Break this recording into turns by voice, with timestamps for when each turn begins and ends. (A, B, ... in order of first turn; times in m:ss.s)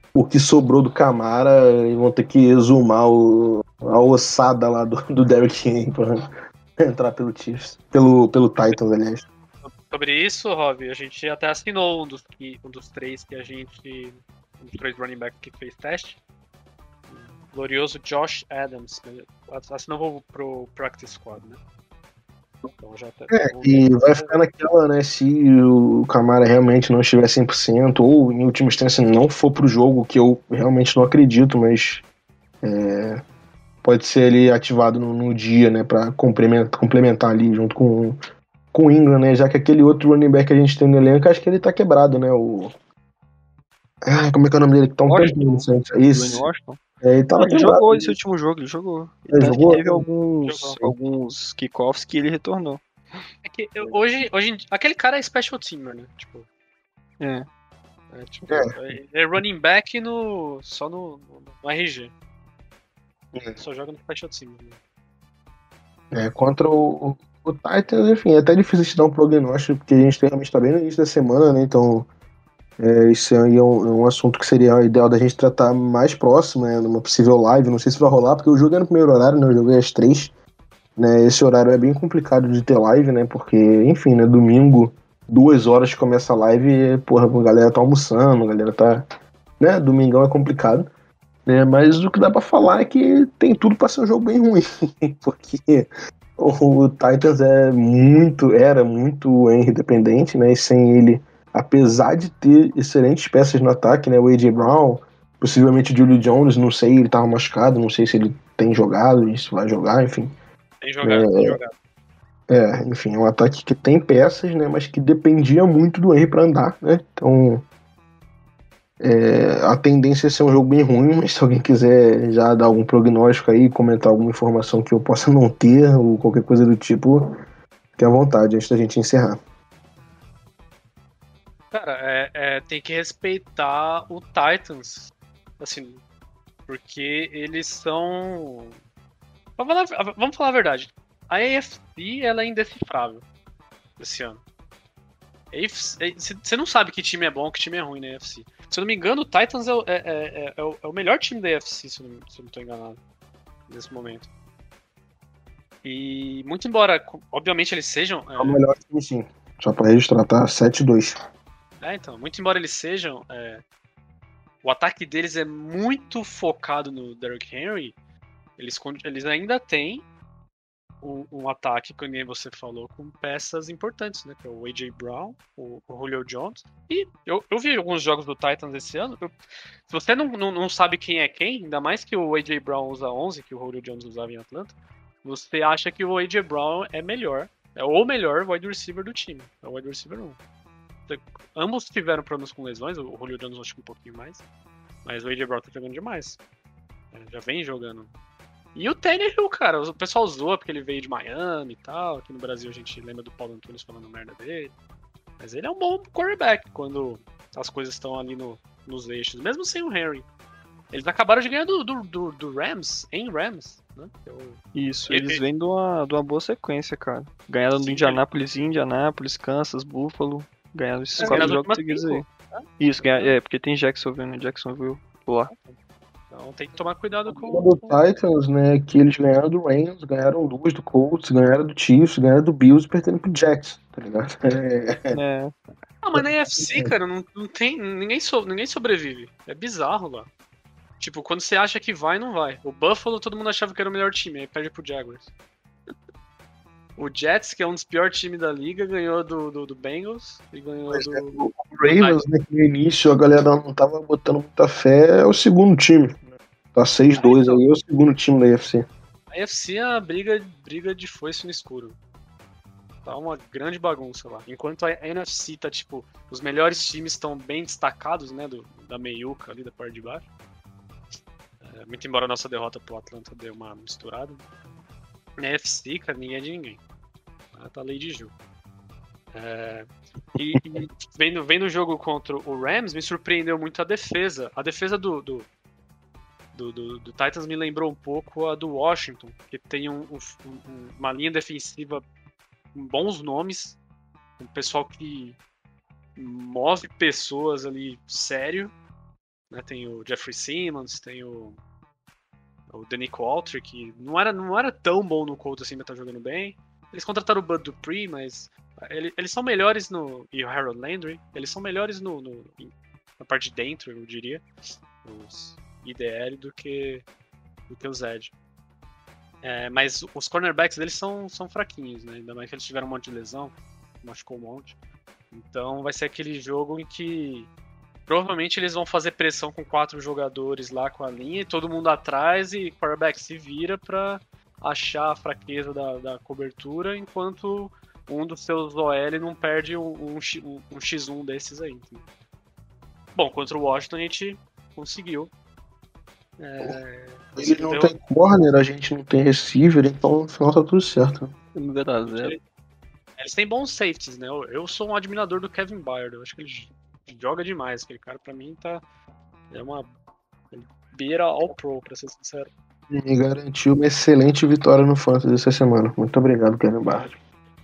0:00.1-0:06.2 A
0:06.8-0:09.3 A
0:09.6-0:16.2 B
0:17.1-0:21.6 B
0:22.8-0:24.4 B
0:23.3-0:32.0 A
0:32.6-0:33.2 A
0:33.8-0:38.2 A
0:38.7-0:42.7 A
0:44.0-0:46.5 A
0:45.1-0:46.8 C
0:47.0-0:48.2 A
0:47.4-0:53.3 C
0:49.3-0:50.1 A
0:50.4-0:50.8 B
0:53.4-0:56.5 B
0:57.2-0:57.5 C
0:58.1-1:02.1 B
1:03.3-1:03.6 A
1:03.6-1:04.8 B
1:06.1-1:12.1 A
1:12.8-1:20.3 A
1:21.0-1:29.1 A
1:29.6-1:30.9 A
1:31.5-1:50.3 A
1:50.8-1:51.7 B
1:51.0-1:51.6 A
1:52.5-1:57.6 A
1:59.0-2:07.3 A
2:08.0-2:09.4 A
2:11.7-2:16.0 B
2:16.7-2:18.8 B
2:19.6-2:23.2 B
2:24.0-2:24.4 B
2:25.5-2:33.0 B
2:33.7-2:34.3 B
2:35.8-2:38.6 B
2:38.4-2:41.2 A
2:41.8-2:43.6 B
2:44.6-2:48.0 B
2:48.6-2:50.1 B
2:51.0-2:59.3 B
2:59.9-3:10.4 B
3:11.1-3:14.4 B
3:15.0-3:16.4 B
3:17.1-3:18.1 B
3:18.8-3:24.7 B
3:25.4-3:30.3 B
3:30.9-3:35.4 B
3:34.7-3:42.3 C
3:37.7-3:38.2 B
3:41.2-3:43.4 B
3:41.2-3:41.6 A
3:42.8-3:45.5 C
3:46.3-3:48.0 B
3:47.3-3:55.1 A
3:55.1-3:55.5 C
3:56.0-4:00.3 B
3:56.2-3:56.9 A
4:01.0-4:05.3 B
4:07.0-4:11.4 B
4:10.9-4:18.9 A
4:11.9-4:12.2 B
4:17.1-4:17.6 B
4:19.3-4:22.0 B
4:23.0-4:30.2 B
4:31.6-4:34.4 B
4:35.4-4:36.8 B
4:37.5-4:38.3 B
4:39.3-4:45.5 B
4:46.5-4:52.0 B
4:52.8-4:53.8 B
4:54.4-4:55.4 B
4:56.2-4:58.7 B
4:59.5-5:01.6 B
5:02.7-5:14.4 B
5:15.0-5:17.0 B
5:17.7-5:18.3 B
5:19.4-5:24.8 B
5:25.3-5:27.5 B
5:28.1-5:42.0 B
5:43.2-5:45.3 B
5:46.4-5:48.0 B
5:47.4-5:51.3 A
5:51.6-5:52.4 C
5:52.1-5:52.4 B
5:53.2-5:58.8 B
5:59.5-5:59.9 B
6:00.5-6:02.5 B
6:02.9-6:07.1 A